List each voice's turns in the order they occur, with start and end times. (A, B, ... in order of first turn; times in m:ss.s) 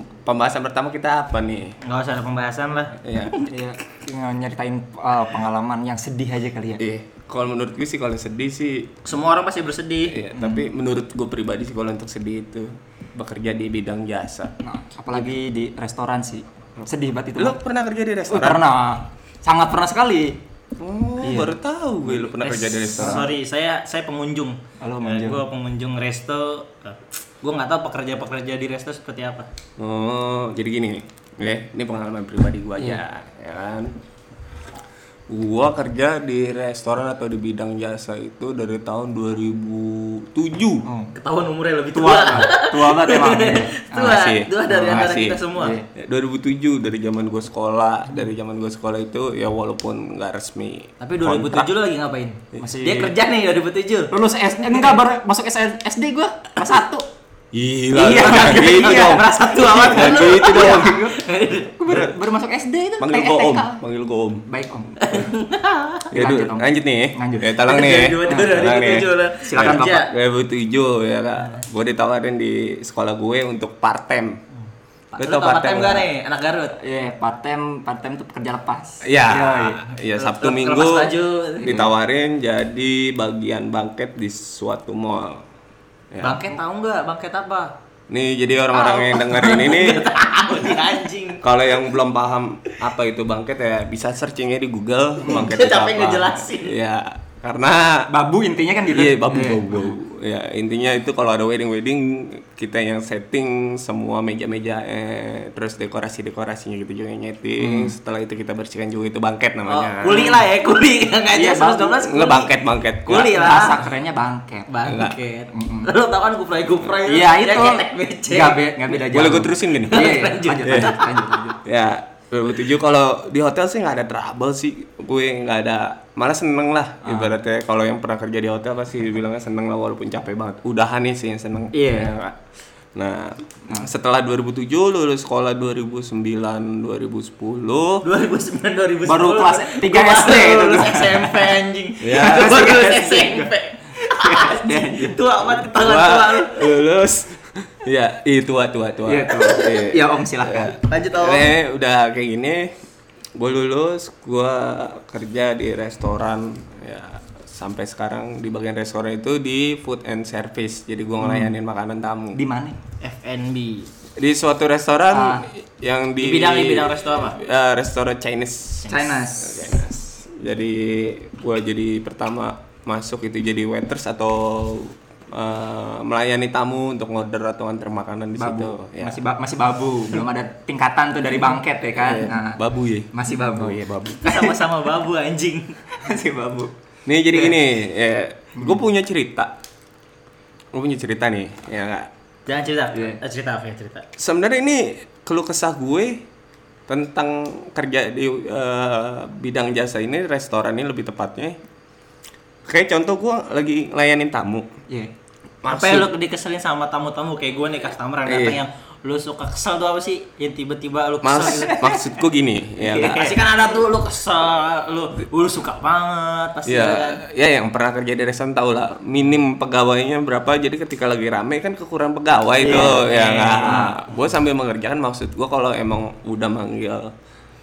0:00.2-0:01.8 A
0:01.8-0:03.5 B
0:03.0-0:03.5 A
0:03.4-0:06.8 C
0:06.8-0:08.9 A
0:09.0-0:10.2 B
0:10.1-0:14.5 A
0:10.3-0:10.6 C
0:14.6-0:17.6 C
0:17.4-0:18.6 A
0:18.3-0:20.4 C
0:20.8-0:23.3 A
0:21.2-0:23.3 C
0:22.9-0:29.5 B
0:24.8-0:25.4 C
0:29.8-0:33.9 A
0:35.3-0:40.9 A
0:40.8-0:41.1 C
0:41.2-0:45.8 B
0:41.9-0:44.2 C
0:44.0-0:45.4 A
0:45.6-0:45.9 C
0:46.0-0:51.7 A
0:51.0-0:54.1 B
0:52.6-0:53.1 C
0:54.1-0:57.0 C
0:57.5-1:01.1 A
0:57.9-1:01.8 B
0:58.0-1:01.2 C
1:01.7-1:03.8 C
1:03.0-1:04.4 A
1:04.5-1:05.2 C
1:05.0-1:06.1 B
1:06.1-1:07.6 C
1:06.1-1:14.4 A
1:07.6-1:10.1 B
1:08.3-1:08.6 C
1:09.5-1:10.0 C
1:15.1-1:16.8 B
1:15.2-1:16.1 A
1:16.8-1:19.9 C
1:19.0-1:25.4 A
1:20.2-1:21.8 B
1:21.6-1:21.9 C
1:26.1-1:26.5 A
1:26.2-1:27.7 B
1:28.1-1:30.1 A
1:28.7-1:31.4 B
1:31.4-1:38.1 A
1:35.2-1:36.7 B
1:38.1-1:39.9 C
1:38.9-1:50.3 A
1:47.6-1:47.9 C
1:49.7-1:52.5 B
1:50.1-1:50.4 C
1:51.3-1:52.0 C
1:52.0-1:53.4 A
1:53.0-1:53.8 B
1:53.1-1:54.8 C
1:54.7-1:58.7 B
1:54.9-1:55.2 A
1:55.5-1:55.9 C
1:57.0-2:01.6 C
1:58.9-2:01.0 A
1:59.9-2:01.1 B
2:01.6-2:12.4 A
2:07.0-2:07.3 C
2:11.7-2:12.1 C
2:13.0-2:18.0 A
2:18.0-2:26.6 B
2:19.0-2:21.5 C
2:22.0-2:22.9 A
2:22.2-2:25.2 C
2:25.5-2:32.7 A
2:29.0-2:30.8 C
2:30.8-2:31.5 B
2:33.4-2:42.4 A
2:41.2-2:41.6 C
2:42.3-2:42.8 C
2:43.0-2:43.9 B
2:44.2-2:59.2 A
2:45.1-2:45.5 C
2:46.2-2:47.4 B
2:48.8-2:49.8 C
2:58.4-3:02.6 C
3:02.0-3:04.2 A
3:03.1-3:04.6 C
3:04.2-3:05.8 B
3:05.9-3:06.8 C
3:07.1-3:09.5 A
3:10.7-3:12.1 A
3:12.5-3:14.1 B
3:14.2-3:16.2 A
3:16.9-3:21.6 A
3:22.7-3:24.7 A
3:25.6-3:26.1 A
3:25.7-3:31.9 B
3:28.3-3:28.6 A
3:31.2-3:33.4 A
3:31.5-3:32.0 C
3:32.8-3:37.2 B
3:36.7-3:47.1 A
3:42.6-3:43.0 C
3:42.6-3:43.9 B
3:43.6-3:44.0 C